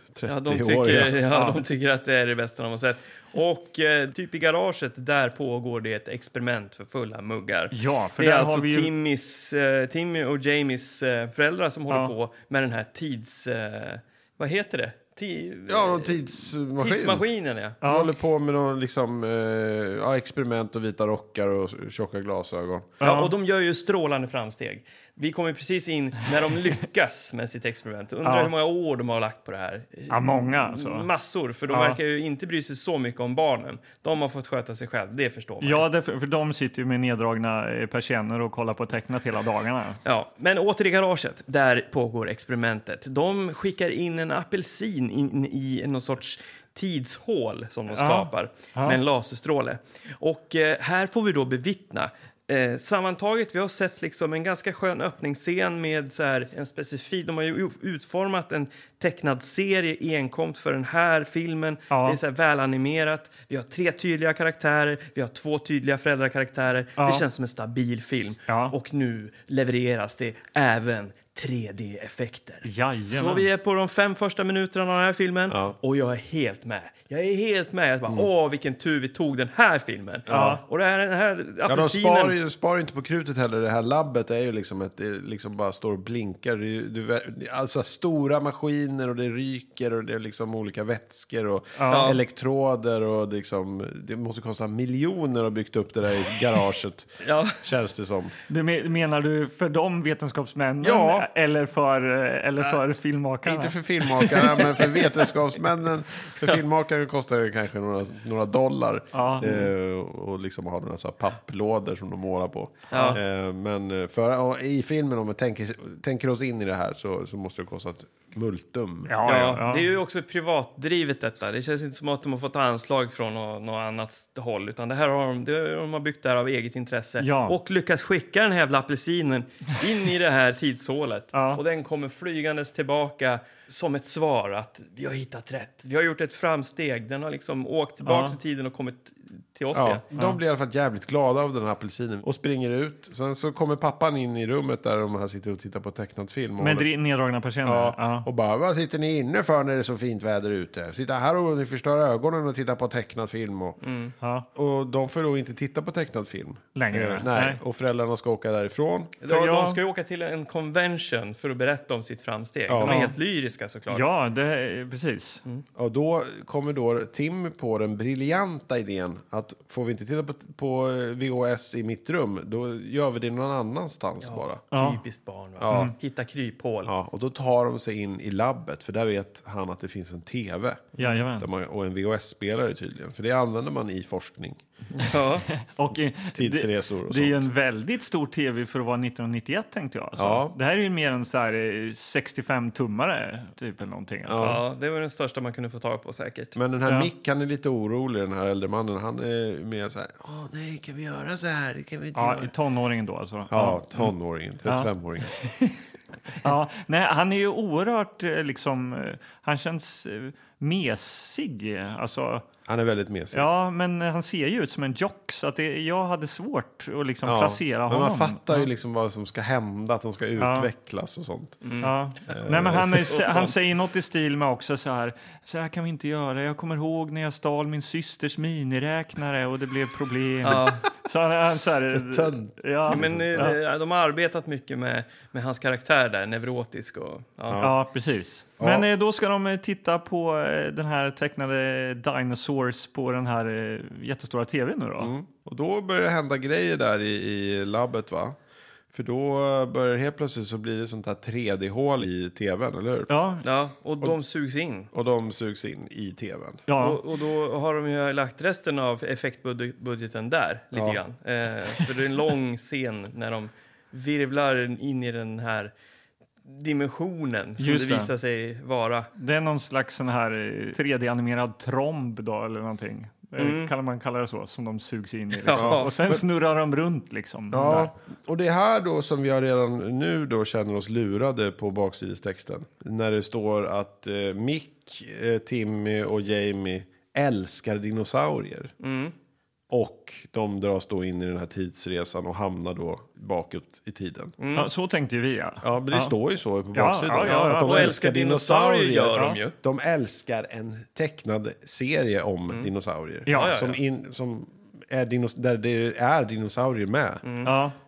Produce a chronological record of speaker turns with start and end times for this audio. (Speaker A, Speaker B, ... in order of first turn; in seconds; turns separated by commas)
Speaker A: 0.1-1.3, Speaker B: 0.3-17.8, Speaker C: 1.3-1.6, Speaker C: 7.7-8.9, Speaker A: 15.7-17.3, Speaker A: 17.8-22.9, Speaker C: 17.8-18.1, Speaker C: 23.0-23.3, Speaker B: 23.0-35.9, Speaker C: 28.2-28.5, Speaker C: 30.1-31.1, Speaker C: 31.7-32.0, Speaker C: 35.6-40.0, Speaker B: 40.0-82.4, Speaker C: 47.9-49.0, Speaker C: 61.9-62.2, Speaker C: 67.0-67.2, Speaker C: 68.5-68.8, Speaker C: 72.7-73.5, Speaker A: 75.5-75.8, Speaker A: 80.3-80.6, Speaker C: 80.3-80.6, Speaker A: 81.7-98.3, Speaker C: 91.8-92.2, Speaker B: 91.9-92.2, Speaker B: 97.2-97.6, Speaker C: 98.5-103.8, Speaker A: 100.8-101.3, Speaker A: 103.4-119.1, Speaker C: 109.1-109.6, Speaker B: 112.9-113.2, Speaker C: 119.1-119.9, Speaker B: 119.2-140.0, Speaker C: 127.2-127.6, Speaker C: 131.3-131.6, Speaker C: 138.0-138.4, Speaker A: 139.7-146.9, Speaker C: 146.6-148.3, Speaker A: 147.6-153.8, Speaker B: 153.8-154.1, Speaker C: 154.2-154.5, Speaker A: 154.6-159.2, Speaker C: 156.8-157.6, Speaker B: 159.2-164.1, Speaker C: 159.3-159.8, Speaker A: 162.7-163.0, Speaker C: 162.8-163.2, Speaker C: 163.9-165.4, Speaker A: 165.8-174.6, Speaker B: 174.2-176.9, Speaker C: 174.7-175.0, Speaker A: 175.6-175.9, Speaker A: 176.9-184.6, Speaker C: 181.0-181.5, Speaker B: 185.0-185.5, Speaker C: 185.5-194.6, Speaker A: 186.3-187.5, Speaker A: 190.2-190.6, Speaker A: 194.3-194.6, Speaker B: 194.4-196.6, Speaker A: 196.6-202.5, Speaker C: 202.2-204.1, Speaker A: 203.5-205.4, Speaker C: 204.7-204.9, Speaker C: 205.4-205.8, Speaker C: 206.4-212.5, Speaker A: 212.7-213.5, Speaker C: 213.3-218.7, Speaker A: 217.2-221.6, Speaker C: 220.4-220.7, Speaker B: 221.6-221.9, Speaker C: 221.8-233.6, Speaker A: 222.3-223.1, Speaker B: 223.0-223.5, Speaker B: 230.4-230.8, Speaker A: 231.9-233.6, Speaker B: 232.9-237.6, Speaker A: 237.5-237.8, Speaker C: 237.6-245.1, Speaker A: 238.6-238.9, Speaker A: 245.0-248.4, Speaker A: 248.9-253.1, Speaker C: 253.1-253.4, Speaker B: 253.4-254.9, Speaker A: 254.9-256.6, Speaker C: 256.7-257.0, Speaker B: 256.8-265.7, Speaker A: 260.7-261.0, Speaker B: 266.5-269.1, Speaker C: 267.6-268.1, Speaker C: 269.2-277.9, Speaker B: 273.4-273.7, Speaker B: 275.4-276.2, Speaker A: 275.6-275.9, Speaker A: 277.5-288.7, Speaker B: 288.8-289.1, Speaker A: 289.7-294.3, Speaker B: 294.4-294.7, Speaker C: 294.6-296.1, Speaker A: 295.6-307.2, Speaker C: 296.7-298.0, Speaker B: 297.2-299.5, Speaker C: 303.3-303.6, Speaker B: 303.3-303.8, Speaker B: 307.2-307.5, Speaker C: 307.4-307.8